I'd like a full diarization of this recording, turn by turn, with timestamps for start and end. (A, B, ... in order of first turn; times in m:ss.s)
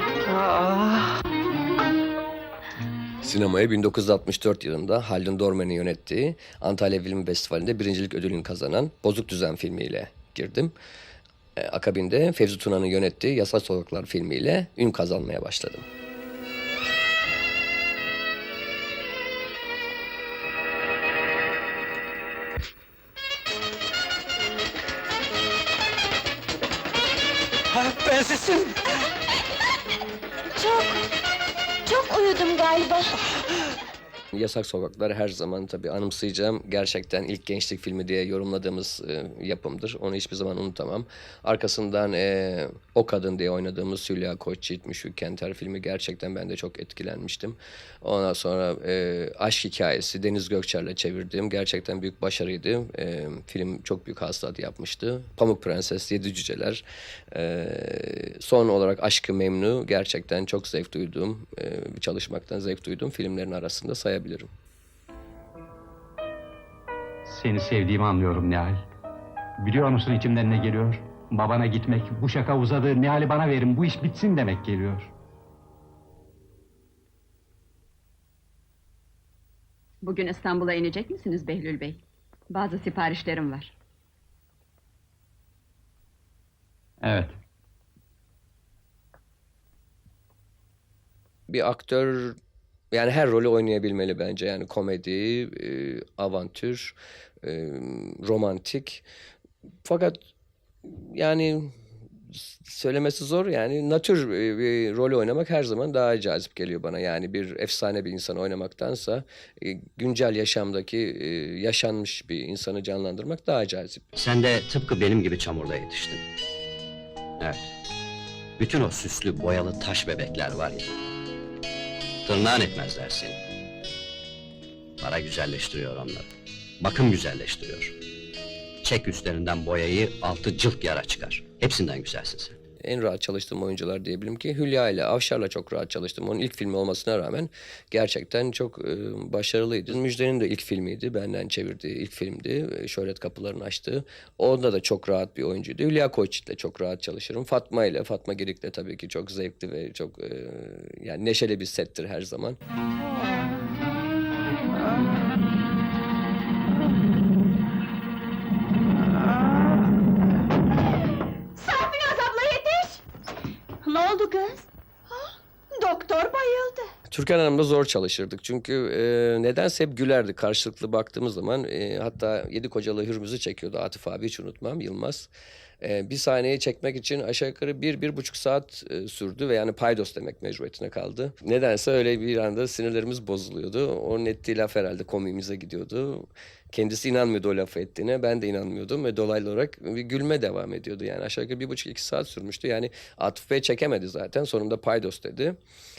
0:00.4-0:00.9 A
0:03.2-0:10.7 B
0:11.6-0:15.8 B
0:30.6-0:31.0 A
0:31.8-0:33.2 A
0:34.3-1:04.5 B
1:07.2-1:08.8 C
1:09.6-1:15.1 C
1:20.0-1:23.7 A
1:27.0-1:27.3 C
1:31.5-1:32.4 B
1:32.9-1:39.0 B
1:39.8-1:40.2 B
1:40.8-1:41.7 B
1:42.3-1:54.0 B
1:54.2-1:56.2 D
1:57.4-1:57.7 D
1:58.6-2:00.9 D
2:02.2-2:03.4 D
2:05.0-2:06.3 D
2:06.8-2:08.0 D
2:08.8-2:12.6 D
2:12.8-2:32.6 B
2:41.6-2:43.0 A
2:43.8-2:46.9 A
2:47.1-2:55.3 B
2:55.8-3:15.6 B